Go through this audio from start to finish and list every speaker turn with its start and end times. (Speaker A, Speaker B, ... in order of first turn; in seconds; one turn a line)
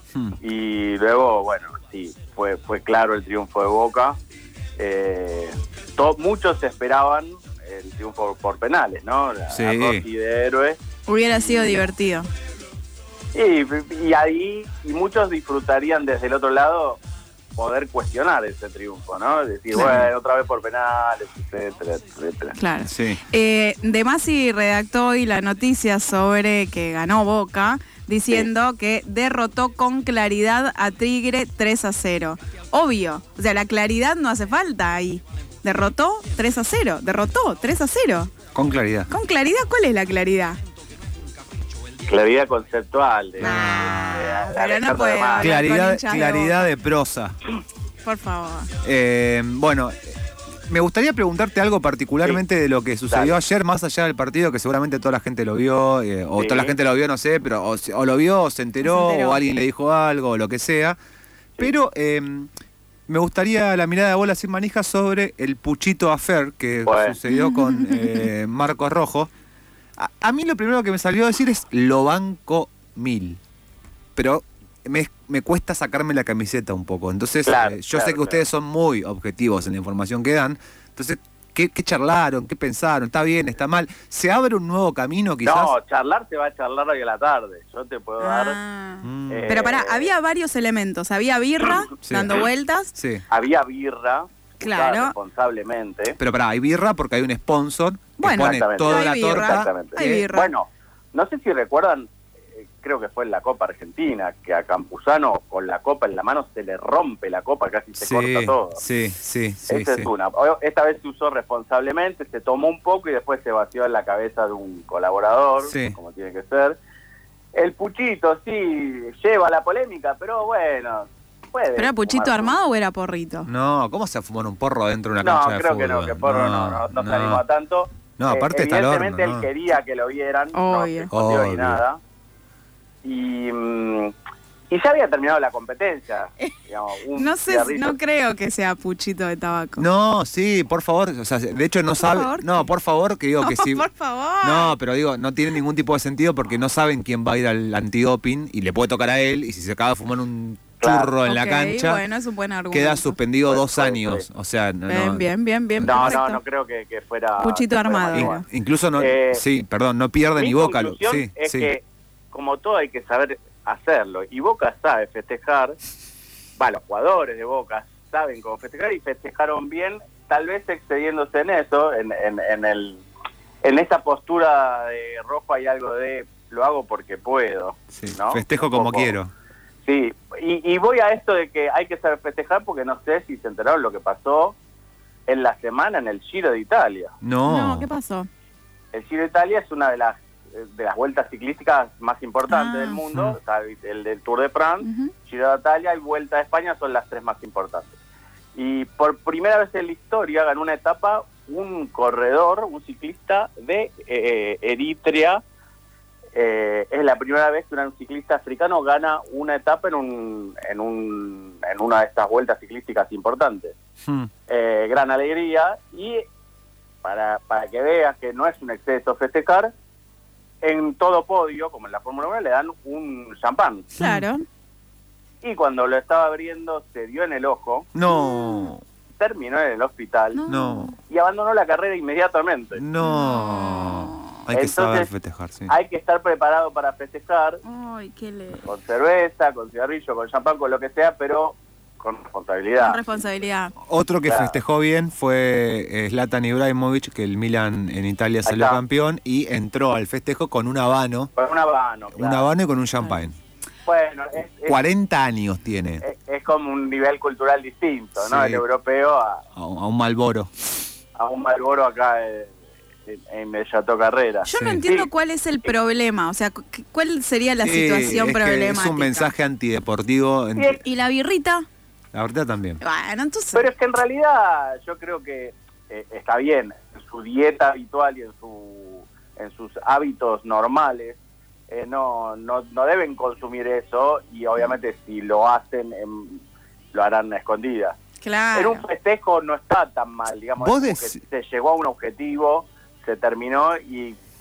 Speaker A: 0.4-4.2
Speaker A: 4.8-10.8
Speaker B: 9.5-10.0
Speaker C: 11.1-12.3
Speaker A: 13.3-17.0
Speaker A: 17.6-22.6
Speaker B: 19.7-20.1
Speaker C: 22.6-38.3
Speaker B: 22.9-23.2
Speaker B: 38.5-39.1
Speaker C: 39.1-40.6
Speaker A: 42.0-45.6
Speaker C: 43.4-46.7
Speaker B: 43.4-44.3
Speaker B: 45.4-47.4
Speaker C: 48.0-48.7
Speaker B: 48.8-50.1
Speaker B: 50.7-61.0
Speaker A: 53.1-53.4
Speaker A: 56.4-56.7
Speaker C: 58.8-59.4
Speaker B: 61.6-62.5
Speaker B: 63.1-69.3
Speaker A: 66.8-67.2
Speaker C: 67.3-68.2
Speaker B: 70.0-73.4
Speaker B: 74.2-85.7
Speaker A: 77.5-78.4
Speaker A: 85.4-88.6
Speaker C: 88.2-92.9
Speaker B: 89.0-89.5
Speaker A: 89.3-90.1
Speaker B: 92.0-93.2
Speaker A: 93.3-96.2
Speaker C: 94.6-95.1
Speaker B: 96.2-100.3
Speaker C: 98.2-100.5
Speaker A: 98.3-108.8
Speaker B: 108.0-110.1
Speaker A: 109.7-116.8
Speaker B: 115.6-116.0
Speaker A: 117.5-122.5
Speaker C: 121.8-123.5
Speaker B: 123.5-127.4
Speaker A: 125.2-132.0
Speaker B: 128.2-129.5
Speaker C: 130.5-131.1
Speaker B: 131.1-131.8
Speaker A: 133.0-134.1
Speaker A: 134.7-137.9
Speaker C: 137.1-139.8
Speaker B: 139.8-143.8
Speaker C: 141.9-142.7
Speaker C: 143.4-144.8
Speaker B: 144.4-152.0
Speaker A: 150.8-151.1
Speaker C: 151.2-153.2
Speaker B: 152.7-156.2
Speaker A: 153.4-154.2
Speaker C: 154.9-156.4
Speaker A: 155.8-158.4
Speaker C: 157.4-158.4
Speaker B: 158.1-161.7
Speaker A: 159.0-159.4
Speaker A: 160.3-165.8
Speaker A: 166.6-173.0
Speaker A: 173.6-179.2
Speaker B: 178.0-179.3
Speaker A: 179.8-184.6
Speaker A: 185.3-187.1
Speaker B: 187.2-187.9
Speaker C: 187.4-188.3
Speaker A: 188.9-197.9
Speaker C: 192.5-193.0
Speaker B: 193.1-193.4
Speaker C: 194.8-195.1
Speaker A: 198.5-205.4
Speaker A: 206.3-213.7
Speaker B: 214.0-214.3
Speaker A: 214.5-216.2
Speaker A: 217.0-219.7
Speaker A: 220.6-223.9
Speaker B: 224.0-224.2
Speaker C: 224.0-224.4
Speaker A: 225.4-227.9
Speaker B: 227.9-228.8
Speaker C: 228.1-228.7
Speaker A: 229.2-230.4
Speaker C: 230.3-230.9
Speaker B: 230.5-230.9
Speaker A: 231.1-232.8
Speaker B: 232.8-235.7
Speaker C: 233.0-234.2
Speaker A: 234.5-235.1
Speaker A: 235.7-237.6
Speaker C: 237.6-238.7
Speaker A: 238.6-243.0
Speaker C: 242.8-243.7
Speaker B: 243.8-251.3
Speaker A: 244.2-244.6
Speaker A: 248.4-248.8
Speaker A: 251.3-252.5
Speaker B: 252.1-253.3
Speaker A: 253.8-254.8
Speaker B: 254.7-256.0
Speaker A: 256.0-259.4
Speaker B: 258.2-258.6
Speaker B: 259.6-260.5
Speaker A: 261.1-262.5
Speaker A: 263.1-265.1
Speaker C: 264.4-269.3
Speaker B: 264.5-264.8
Speaker B: 267.6-270.8
Speaker C: 270.8-271.6
Speaker B: 272.1-272.8
Speaker C: 272.8-273.7
Speaker A: 273.5-286.4
Speaker A: 286.9-288.0
Speaker C: 288.2-288.8
Speaker A: 288.5-294.2
Speaker B: 290.6-291.2